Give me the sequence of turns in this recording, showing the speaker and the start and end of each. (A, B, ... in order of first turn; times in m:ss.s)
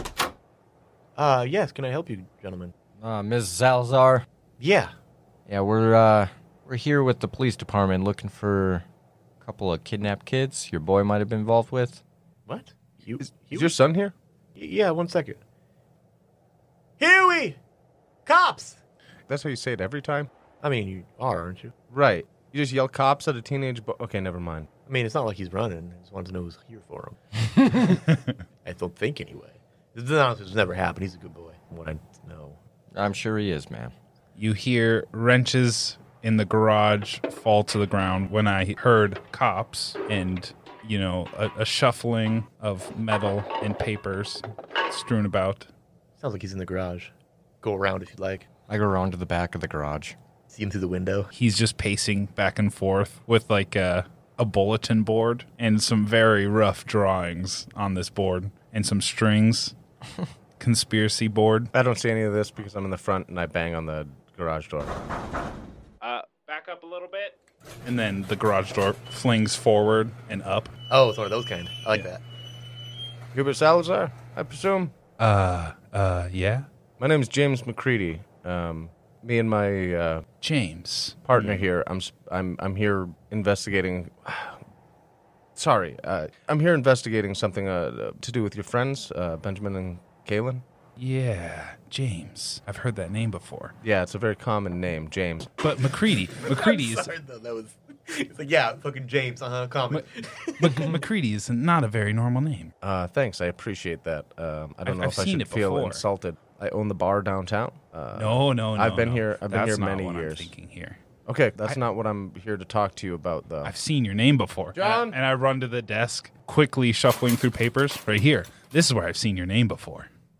0:01.2-0:02.7 A
0:03.0-0:04.2 B
0:04.6-0:04.9 A
0:05.5-0:08.8 B
0:09.4-0:12.0 B
0:12.5-0:13.7 A
0:13.5-0:14.1 C
0:14.6-0:15.4 A
0:17.0-0:17.6 A
0:18.2-0:18.8 A
0:19.3-0:20.3 C
0:20.6-0:21.7 A
0:21.9-0:24.7 C
0:24.9-0:27.2 A
0:28.6-0:32.6 A
0:32.9-0:33.9 B
0:34.4-0:45.7 D
0:46.2-0:48.4 A
0:48.7-0:50.2 B
0:50.5-0:51.3 A
0:51.3-0:59.7 D
1:00.6-1:01.7 D
1:01.7-1:04.9 C
1:06.0-1:10.7 D
1:10.9-1:12.2 A
1:13.3-1:14.9 C
1:15.2-1:16.7 D
1:17.0-1:20.2 C
1:20.4-1:21.6 D
1:21.2-1:24.6 C
1:25.6-1:30.6 C
1:31.0-1:33.8 D
1:33.8-1:35.5 C
1:35.6-1:37.1 D
1:36.4-1:41.0 A
1:40.6-1:42.7 D
1:42.8-1:50.5 C
1:44.8-1:46.0 D
1:48.1-1:51.0 D
1:51.2-1:53.7 C
1:53.6-2:00.1 D
1:54.7-1:55.2 C